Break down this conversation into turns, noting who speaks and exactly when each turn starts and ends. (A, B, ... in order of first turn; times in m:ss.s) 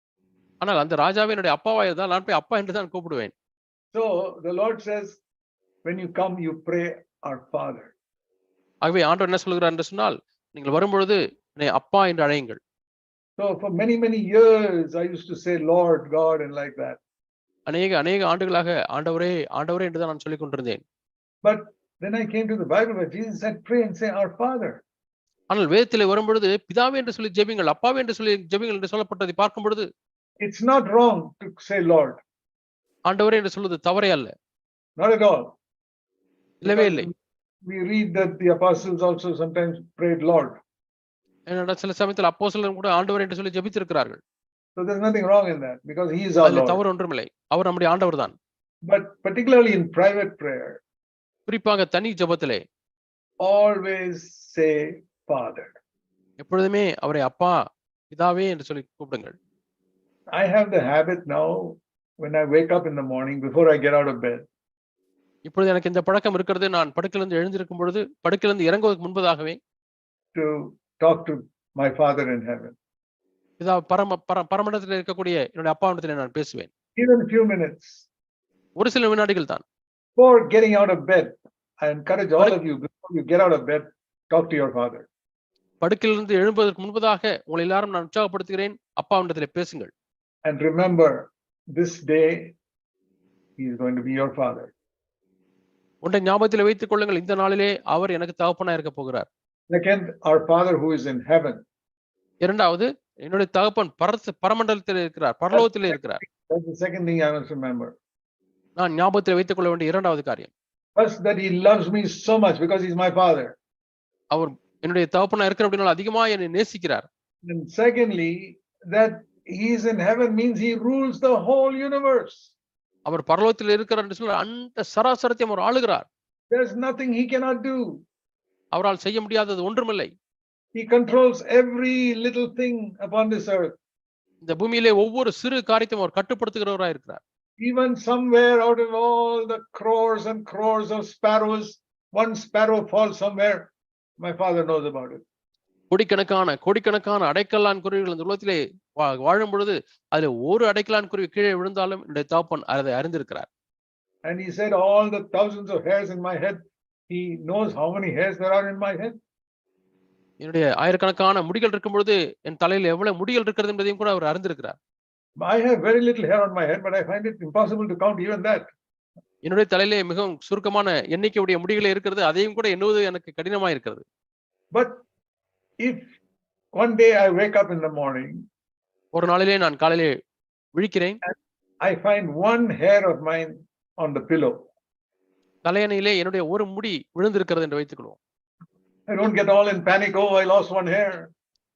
0:00.6-0:03.3 A
0:03.9-0:05.2 B
0:05.8-0:07.9 B
0:08.8-0:12.6 A
0:13.4-0:17.0 B
0:17.7-0:20.8 A
0:21.4-0:24.8 B
0:25.5-0:29.9 A
0:30.4-0:32.2 B
0:33.1-0:34.3 A
0:35.0-0:35.6 B
0:36.6-0:37.1 A
0:36.6-0:37.1 B
0:37.7-0:40.6 B
0:41.5-0:44.2 A
0:44.8-0:46.8 B
0:46.4-0:48.4 A
0:48.9-0:50.8 B
0:51.5-0:52.6 A
0:53.4-0:55.8 B
0:56.4-0:57.6 A
0:58.1-0:59.4 A
1:00.3-1:04.5 B
1:05.4-1:09.6 A
1:10.3-1:12.8 B
1:13.6-1:16.7 A
1:17.0-1:18.1 B
1:18.8-1:19.6 A
1:20.2-1:25.1 B
1:25.8-1:29.9 A
1:30.4-1:32.5 B
1:33.6-1:34.7 B
1:36.0-1:39.3 A
1:39.7-1:41.6 B
1:42.4-1:46.2 A
1:45.5-1:48.0 B
1:48.8-1:50.5 A
1:51.0-1:53.6 B
1:54.3-1:57.1 A
1:57.4-2:02.5 B
2:03.1-2:06.1 A
2:06.5-2:08.0 B
2:08.7-2:10.1 A
2:10.8-2:13.7 B
2:14.4-2:17.2 A
2:17.6-2:23.7 B
2:24.2-2:25.2 B
2:25.9-2:33.5 A
2:34.2-2:39.2 B
2:40.4-2:44.8 A
2:45.4-2:48.7 B
2:49.4-2:54.0 A
2:54.7-2:55.0 B
2:55.8-2:56.1 B
2:56.8-2:58.4 B
2:59.1-3:00.1 A
3:00.8-3:01.2 A
3:01.2-3:04.6 B
3:05.6-3:08.2 A
3:09.1-3:11.3 B